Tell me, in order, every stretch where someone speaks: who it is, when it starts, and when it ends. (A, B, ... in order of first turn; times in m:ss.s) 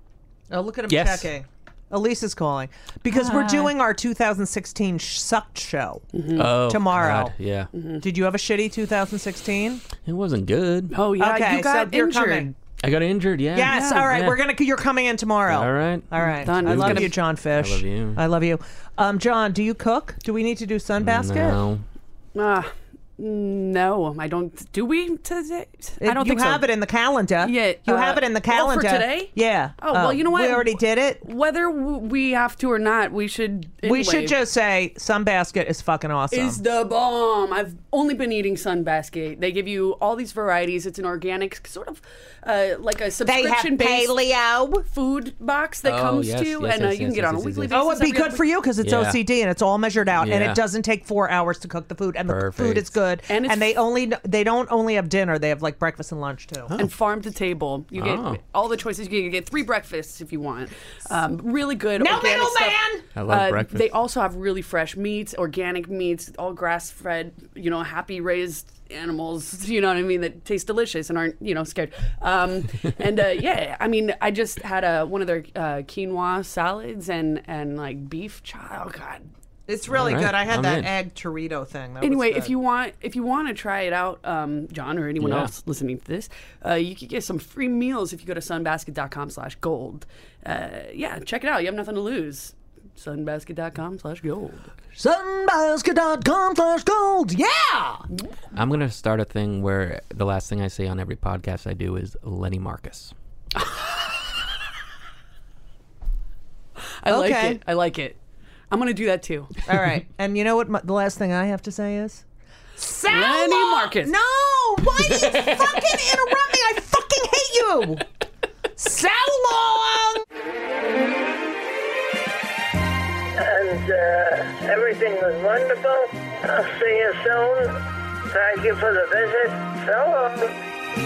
0:00.5-0:07.3 A
0:00.9-0:01.3 B
0:03.1-0:03.7 C
0:06.1-0:06.5 C
0:06.4-0:07.7 B
0:07.7-0:08.0 C
0:08.0-0:09.8 A
0:10.0-0:11.0 B
0:10.9-0:12.6 C
0:11.2-0:12.5 A
0:12.8-0:14.4 B
0:13.5-0:21.6 A
0:13.7-0:14.1 C
0:15.5-0:18.2 B
0:16.4-0:17.1 C
0:21.0-0:21.8 B
0:22.4-0:26.6 C
0:26.0-0:31.2 A
0:27.4-0:34.4 C
0:33.8-0:36.6 A
0:36.3-0:44.2 C
0:43.2-0:44.9 A
0:44.9-0:48.5 C
0:45.8-0:47.8 B
0:47.7-0:56.8 A
0:48.8-0:49.2 B
0:50.2-0:50.6 B
0:52.3-0:52.9 B
0:53.3-0:53.8 C
0:56.8-1:19.3 C
0:58.0-0:58.4 B
1:02.0-1:03.0 A
1:03.2-1:03.9 B
1:19.7-1:22.5 A
1:19.9-1:20.9 B
1:22.0-1:34.7 C
1:25.2-1:25.5 B
1:35.0-1:38.1 A
1:38.5-1:43.1 B
1:43.6-1:44.0 C
1:47.0-1:48.2 C
1:47.1-1:47.6 A
1:48.7-1:49.6 C
1:49.7-1:52.2 A
1:52.8-1:58.0 A
1:53.1-1:54.2 C
1:58.8-2:00.2 A
2:03.4-2:10.6 D